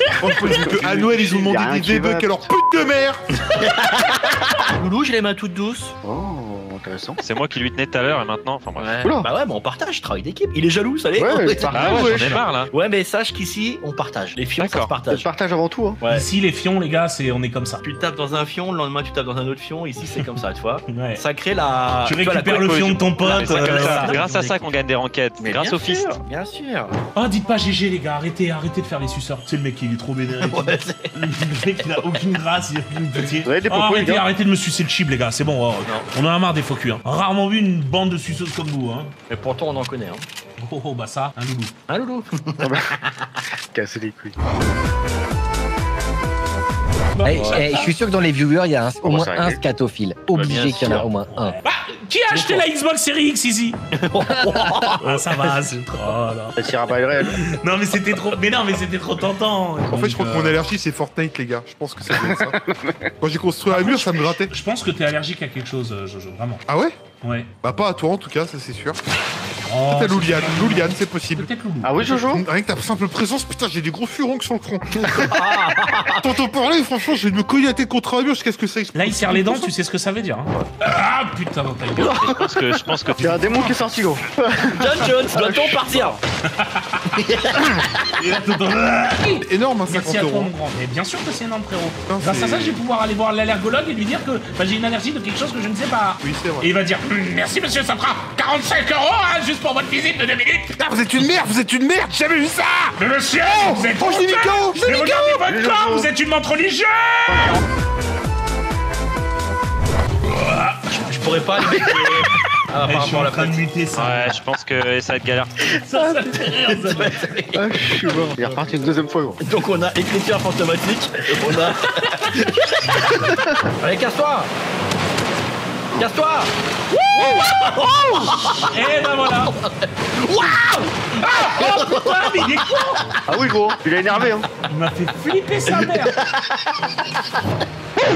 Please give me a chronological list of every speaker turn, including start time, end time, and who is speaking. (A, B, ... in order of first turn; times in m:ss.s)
0:00.2-0:03.3 A
0:00.8-0:02.4 B
0:03.6-0:04.2 C
0:04.7-0:05.9 C
0:06.0-0:07.2 B
0:07.2-0:09.1 D
0:08.8-0:15.3 C
0:09.0-0:09.3 B
0:11.2-0:12.3 B
0:11.7-0:12.7 D
0:14.6-0:15.0 D
0:15.1-0:16.0 B
0:16.0-0:16.2 C
0:16.1-0:17.8 E
0:17.8-0:24.6 C
0:20.9-0:21.2 E
0:22.0-0:24.2 E
0:22.4-0:26.2 D
0:25.4-0:27.0 C
0:27.1-0:39.1 E
0:30.4-0:31.1 C
0:33.4-0:34.2 B
0:39.3-0:40.2 C
0:40.6-0:41.7 E
0:41.9-0:42.8 C
0:42.6-0:42.9 B
0:43.7-0:44.3 B
0:47.2-0:47.9 E
0:47.2-0:51.6 F
0:49.0-0:49.6 B
0:50.3-0:51.1 C
0:51.3-0:53.8 E
0:52.3-0:52.6 C
0:54.0-0:55.5 C
0:54.7-0:56.6 E
0:56.6-0:57.4 B
0:57.2-1:00.6 E
0:59.9-1:02.7 A
1:02.2-1:02.9 B
1:03.2-1:04.5 A
1:03.7-1:06.6 E
1:06.7-1:07.0 A
1:07.2-1:07.5 E
1:07.6-1:09.0 A
1:09.6-1:12.1 E
1:09.9-1:11.5 A
1:11.8-1:12.4 B
1:12.1-1:15.6 A
1:15.2-1:16.2 C
1:16.2-1:19.7 A
1:18.9-1:22.2 E
1:22.0-1:23.7 D
1:23.2-1:26.2 B
1:23.2-1:23.9 A
1:24.7-1:26.2 C
1:26.6-1:27.1 E
1:27.2-1:27.9 C
1:28.2-1:40.8 E
1:29.4-1:30.5 A
1:32.1-1:32.8 A
1:36.2-1:36.7 A
1:40.8-1:45.4 A
1:43.0-1:47.5 E
1:45.4-1:46.1 B
1:47.3-1:47.6 B
1:50.2-1:50.8 E
1:50.9-1:53.6 C
1:52.8-1:54.4 E
1:53.9-1:55.6 D
1:55.7-1:57.2 E
1:56.7-1:58.4 C
1:57.6-1:59.4 B
1:59.4-2:04.5 C
2:06.0-2:06.5 C
2:07.0-2:09.5 E
2:07.1-2:13.2 C
2:11.2-2:13.0 E
2:13.3-2:14.5 B
2:14.1-2:16.2 E
2:15.7-2:16.7 C